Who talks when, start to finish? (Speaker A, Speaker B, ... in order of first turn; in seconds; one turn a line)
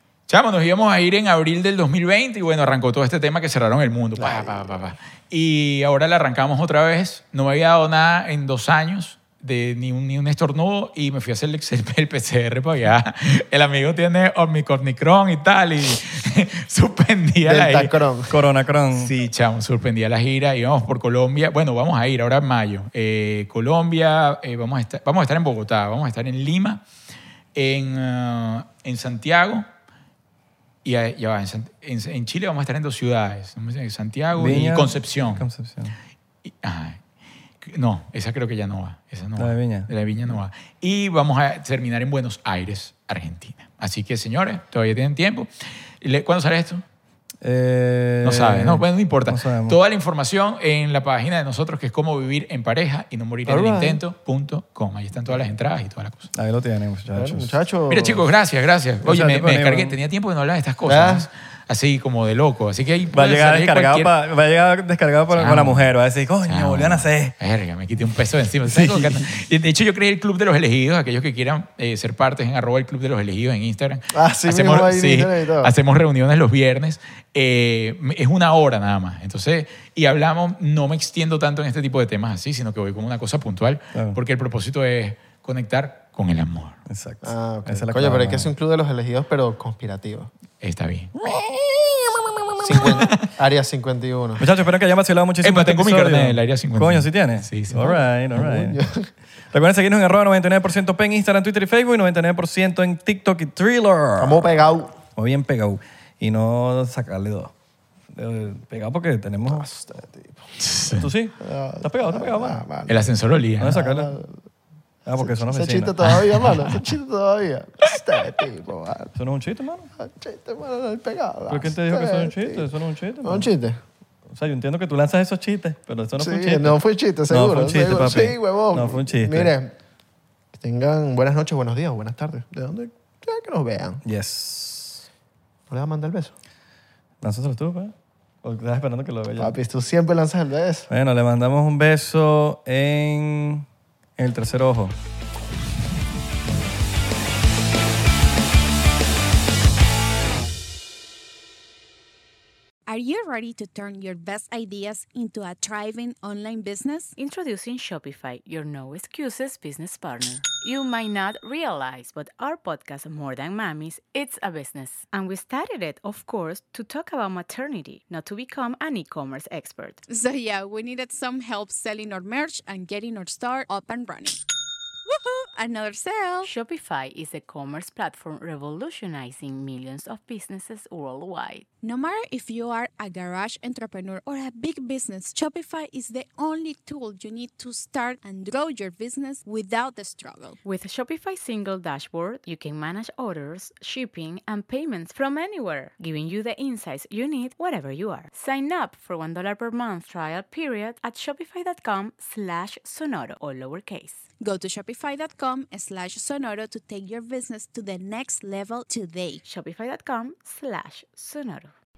Speaker A: 0.3-18.0
Speaker B: 17.4-18.3
Speaker C: 18.3-19.1
Speaker A: 18.9-26.8
Speaker A: 27.6-29.7
Speaker A: 30.8-35.4
Speaker C: 34.3-36.0
Speaker A: 36.5-37.0
Speaker A: 37.6-45.5
Speaker C: 39.4-39.9
Speaker A: 46.0-46.8
Speaker C: 47.4-49.8
Speaker A: 48.2-56.3
Speaker B: 53.5-54.0
Speaker C: 56.3-57.6
Speaker B: 57.1-58.2
Speaker A: 57.9-64.1
Speaker C: 59.0-59.9
Speaker B: 60.9-61.3
Speaker C: 63.1-67.3
Speaker A: 65.3-65.9
Speaker A: 66.5-86.8
Speaker B: 74.1-75.7
Speaker C: 86.9-88.5
Speaker B: 87.2-90.3
Speaker A: 90.6-91.1
Speaker C: 91.3-92.7
Speaker B: 92.6-94.5
Speaker C: 94.4-98.8
Speaker A: 95.4-98.0
Speaker B: 98.4-99.1
Speaker C: 99.5-107.5
Speaker B: 104.2-105.0
Speaker C: 108.1-109.7
Speaker B: 109.5-110.4
Speaker A: 110.6-111.1
Speaker C: 110.9-112.6
Speaker B: 111.4-113.0
Speaker A: 112.9-113.8
Speaker C: 113.6-114.1
Speaker B: 113.7-114.4
Speaker C: 115.1-116.0
Speaker B: 115.2-119.2
Speaker C: 119.2-119.9
Speaker B: 120.0-122.7
Speaker C: 121.5-123.5
Speaker B: 123.2-123.8
Speaker C: 124.3-129.5
Speaker B: 126.2-129.7
Speaker B: 130.5-134.0
Speaker C: 134.0-135.0
Speaker B: 135.7-136.3
Speaker C: 137.2-139.6
Speaker B: 139.4-140.9
Speaker C: 140.9-143.7
Speaker C: 144.2-144.9
Speaker D: 152.9-157.2
Speaker E: 157.2-170.0
Speaker D: 170.1-174.4
Speaker D: 175.1-176.5
Speaker E: 176.4-181.7
Speaker D: 181.8-190.6
Speaker E: 190.7-204.3
Speaker D: 204.4-209.4
Speaker E: 209.5-211.7